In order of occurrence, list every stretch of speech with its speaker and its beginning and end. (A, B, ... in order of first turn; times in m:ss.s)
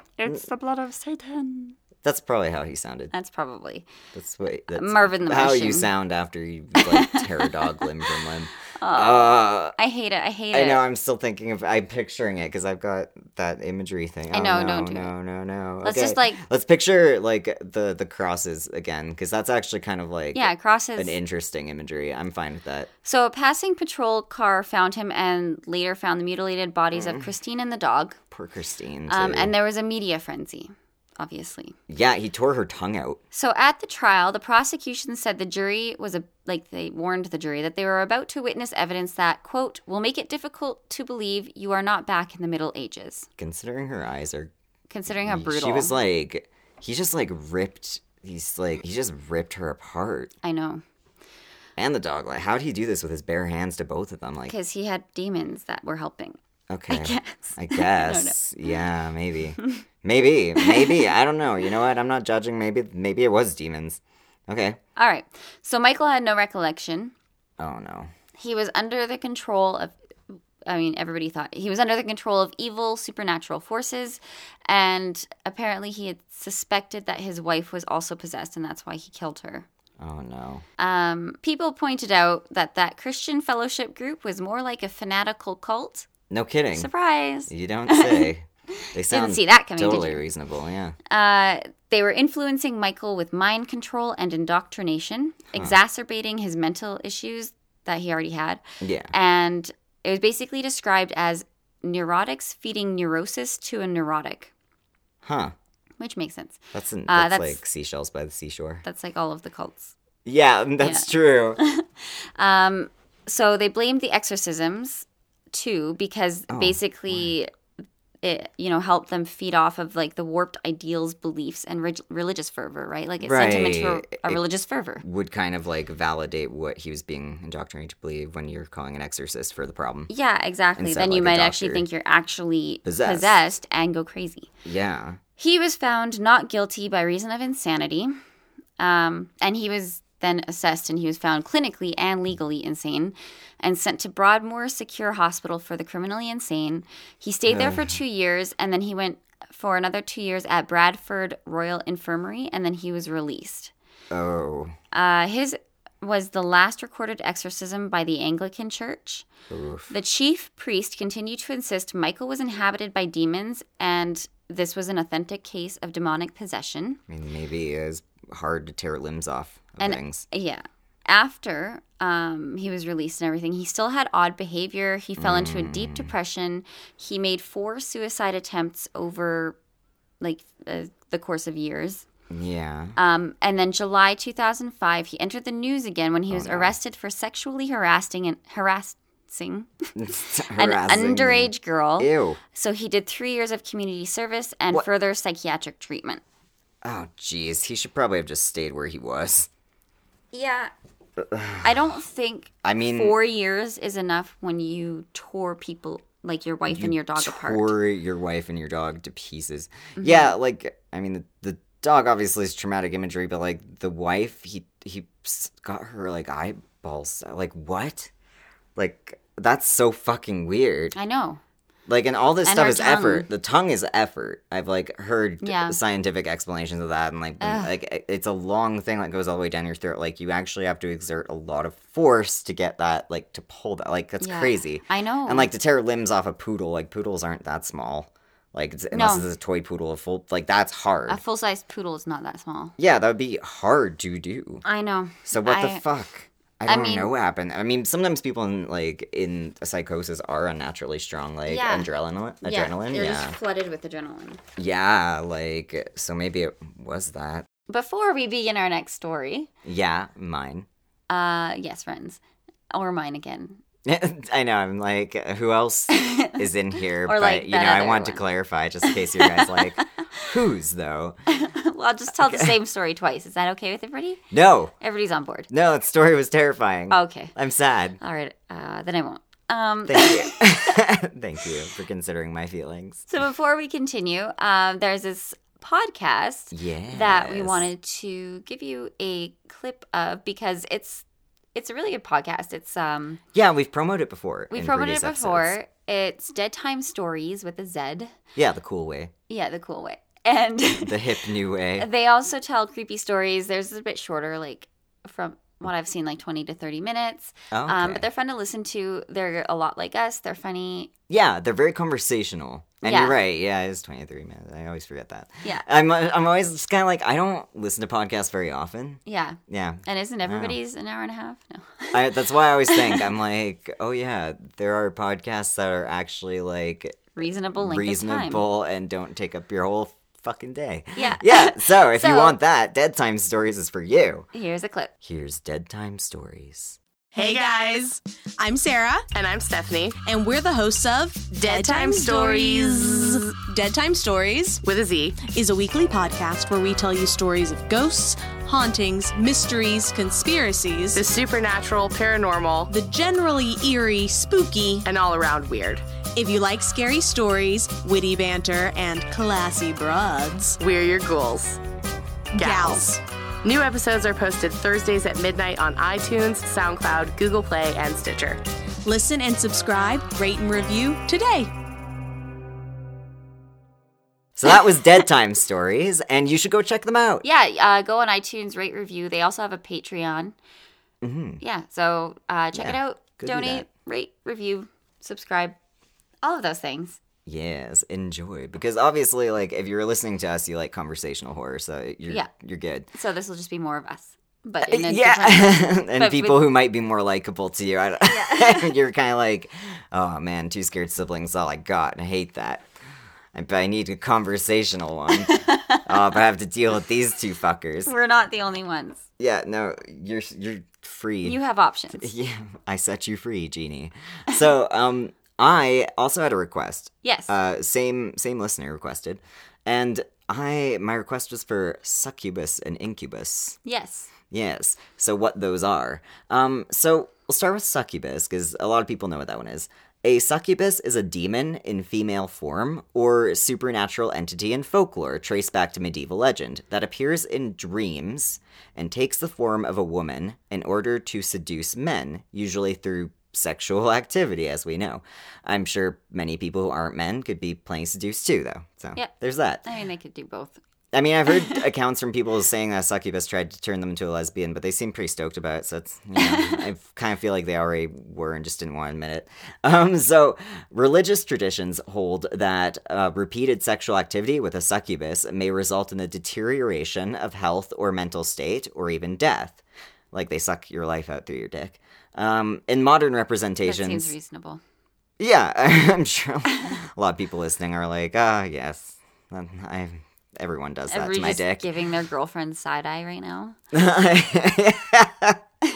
0:00.2-0:01.8 A
0:02.0-0:03.1 B
0:03.1-0:03.9 A
0:04.1-0:09.8 B
0:04.7-0:05.9 A
0:06.8-0:08.1 A
0:08.8-0:10.8 A
0:10.5-0:22.9 B
0:14.3-0:15.1 A
0:15.8-0:16.4 A
0:20.3-0:21.2 A
0:23.0-0:28.2 A
0:26.9-0:27.3 B
0:28.3-0:29.5 B
0:29.1-0:31.8 A
0:31.9-0:33.2 B
0:33.3-0:43.3 A
0:43.4-0:44.5 B
0:44.9-0:45.9 A
0:45.1-0:50.3 B
0:50.4-0:50.8 A
0:51.8-0:54.6 B
0:54.5-0:56.4 A
0:56.7-1:04.8 B
0:56.9-0:58.4 A
1:00.6-1:01.1 A
1:05.0-1:07.1 A
1:07.6-1:08.1 B
1:08.4-1:10.0 A
1:10.7-1:19.7 A
1:20.0-1:20.6 B
1:20.8-1:26.1 A
1:26.3-1:26.9 B
1:26.8-1:28.3 A
1:27.5-1:31.0 B
1:28.8-1:30.2 A
1:31.1-1:44.5 A
1:38.8-1:39.1 B
1:45.2-1:45.5 B
1:46.0-1:47.6 A
1:46.7-1:48.8 B
1:48.8-1:49.9 A
1:50.3-1:51.6 B
1:50.8-1:57.5 A
1:56.5-1:57.3 B
1:58.2-2:05.0 A
2:03.2-2:04.4 B
2:05.0-2:10.1 B
2:10.1-2:14.5 A
2:10.8-2:11.9 B
2:12.8-2:13.4 B
2:14.6-2:15.2 B
2:15.4-2:18.1 A
2:18.8-2:33.7 A
2:27.5-2:28.0 B
2:34.1-2:34.8 B
2:34.9-2:39.3 A
2:39.5-2:39.9 B
2:39.9-2:47.0 A
2:47.1-2:50.3 B
2:49.8-2:59.6 A
2:55.2-2:56.1 B
3:00.2-3:02.0 A
3:02.3-3:03.0 B
3:03.0-3:09.7 A
3:06.3-3:06.8 B
3:10.0-3:12.4 B
3:10.5-3:16.2 A
3:16.8-3:19.5 B
3:20.3-3:20.7 A
3:21.2-3:21.7 B
3:21.6-3:27.7 A
3:22.6-3:23.2 B
3:26.7-3:38.1 B
3:30.0-3:30.4 A
3:38.8-3:41.0 B
3:41.0-3:41.4 A
3:41.9-4:01.2 B
3:42.4-3:43.3 A
3:45.4-3:45.8 A
3:47.4-3:47.7 A
3:54.2-3:55.5 A
3:58.9-3:59.3 A
4:01.1-4:02.8 A
4:02.8-4:04.6 B
4:04.6-4:05.8 A
4:05.3-4:13.4 B
4:06.7-4:07.1 A
4:11.5-4:11.9 A
4:12.4-4:14.4 A
4:14.6-4:17.5 B
4:17.7-4:19.5 A
4:19.6-4:20.7 B
4:21.1-4:22.2 A
4:22.7-4:23.6 A
4:23.9-4:31.2 B
4:25.9-4:26.4 A
4:27.0-4:28.2 A
4:28.9-4:30.3 A
4:31.3-4:34.2 A
4:32.2-4:32.5 B
4:34.3-4:34.7 B
4:34.8-4:35.5 A
4:35.5-4:38.0 B
4:36.9-4:37.3 A
4:38.0-4:40.8 A
4:39.9-4:43.1 B
4:43.1-4:51.0 A
4:46.5-4:47.7 B
4:51.6-4:53.2 A
4:53.3-4:55.6 B
4:54.5-4:58.1 A
4:58.4-4:59.1 B
4:59.3-5:01.0 A
5:00.8-5:01.9 B
5:01.8-5:10.9 A
5:07.5-5:08.1 B
5:11.1-5:20.6 B
5:12.8-5:13.2 A
5:19.1-5:23.0 A
5:21.9-5:34.3 B
5:27.2-5:28.4 A
5:31.0-5:32.4 A
5:34.3-5:34.9 A
5:35.0-5:36.8 B
5:37.2-5:37.9 C
5:37.2-5:39.1 D
5:39.1-5:40.0 C
5:40.0-5:44.6 D
5:41.3-5:43.3 C
5:44.6-5:45.2 C
5:45.2-5:51.0 D
5:51.0-5:52.7 C
5:52.7-5:54.8 D
5:54.8-5:55.8 C
5:56.2-6:00.6 D
6:00.6-6:01.6 C
6:02.3-6:03.0 D
6:02.4-6:02.9 C
6:03.4-6:08.4 C
6:08.8-6:11.5 D
6:14.4-6:17.2 B
6:17.2-6:20.4 A
6:21.0-6:21.4 B
6:21.4-6:25.6 A
6:22.5-6:23.7 B
6:26.2-6:27.0 A
6:27.3-6:32.9 B
6:32.9-6:36.4 A
6:34.6-6:42.6 B
6:38.0-6:38.7 A
6:43.3-6:47.9 B
6:45.2-6:45.9 A
6:47.9-6:49.0 A
6:49.2-6:51.4 B
6:51.2-6:52.1 A
6:52.0-7:03.6 B
6:57.0-6:57.3 A
7:03.6-7:04.1 A
7:04.3-7:29.6 B
7:29.6-7:30.6 A
7:30.9-7:54.1 B
7:36.2-7:36.6 A
7:53.6-7:54.6 A
7:55.2-8:01.7 B
8:00.9-8:03.6 A
8:03.7-8:05.4 B